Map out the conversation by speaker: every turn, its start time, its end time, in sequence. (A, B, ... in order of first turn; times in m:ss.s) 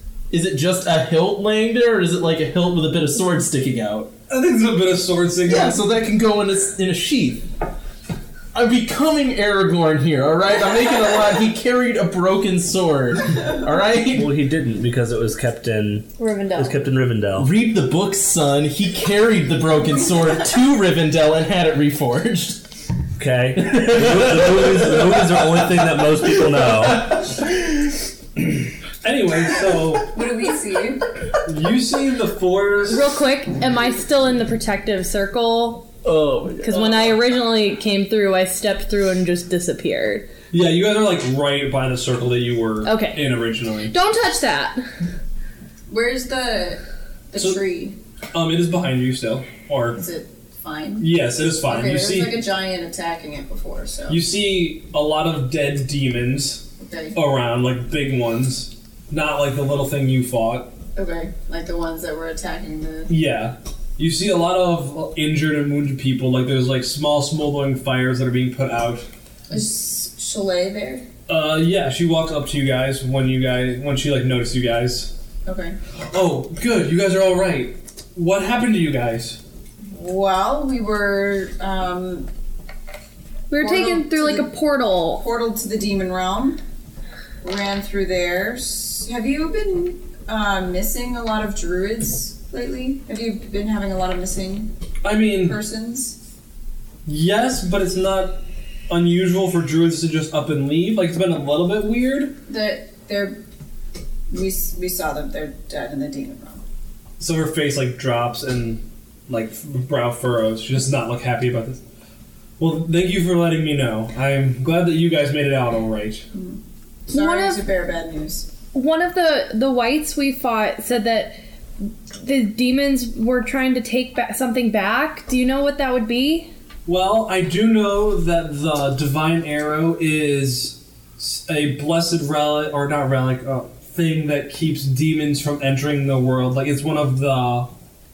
0:00.3-0:04.1 A
0:04.3-0:05.9 B
0:05.5-0:07.5 A
0:08.5-0:14.3 A
0:14.1-0:17.5 C
0:16.2-0:16.8 D
0:17.4-0:22.6 A
0:23.2-0:27.2 C
0:23.8-0:25.6 A
0:29.0-0:30.1 B
0:30.1-0:31.1 E
0:31.4-0:33.0 B
0:32.9-0:35.9 D
0:36.0-0:37.2 A
0:36.6-0:40.3 D
0:40.5-0:43.9 B
0:42.8-0:43.2 D
0:43.9-0:44.8 D
0:45.9-0:46.8 E
0:47.3-0:48.0 E
0:47.4-0:47.6 B
0:48.3-0:50.0 B
0:50.0-0:54.2 E
0:51.0-0:52.4 B
0:54.1-1:00.7 B
0:56.8-0:57.2 E
1:01.0-1:03.1 E
1:03.1-1:09.1 B
1:09.5-1:11.0 E
1:11.3-1:15.1 B
1:15.5-1:15.8 E
1:16.0-1:19.4 B
1:19.9-1:22.3 E
1:23.5-1:25.2 D
1:23.6-1:24.5 E
1:25.2-1:26.6 E
1:27.4-1:34.7 E
1:35.0-1:35.6 B
1:35.4-1:36.2 E
1:37.1-1:42.4 B
1:42.5-1:43.4 E
1:44.3-1:46.6 E
1:47.2-1:51.8 B
1:52.6-1:56.2 B
1:56.3-1:58.5 E
1:57.1-1:57.6 D
1:58.7-2:01.4 D
2:02.2-2:06.5 D
2:06.9-2:17.7 B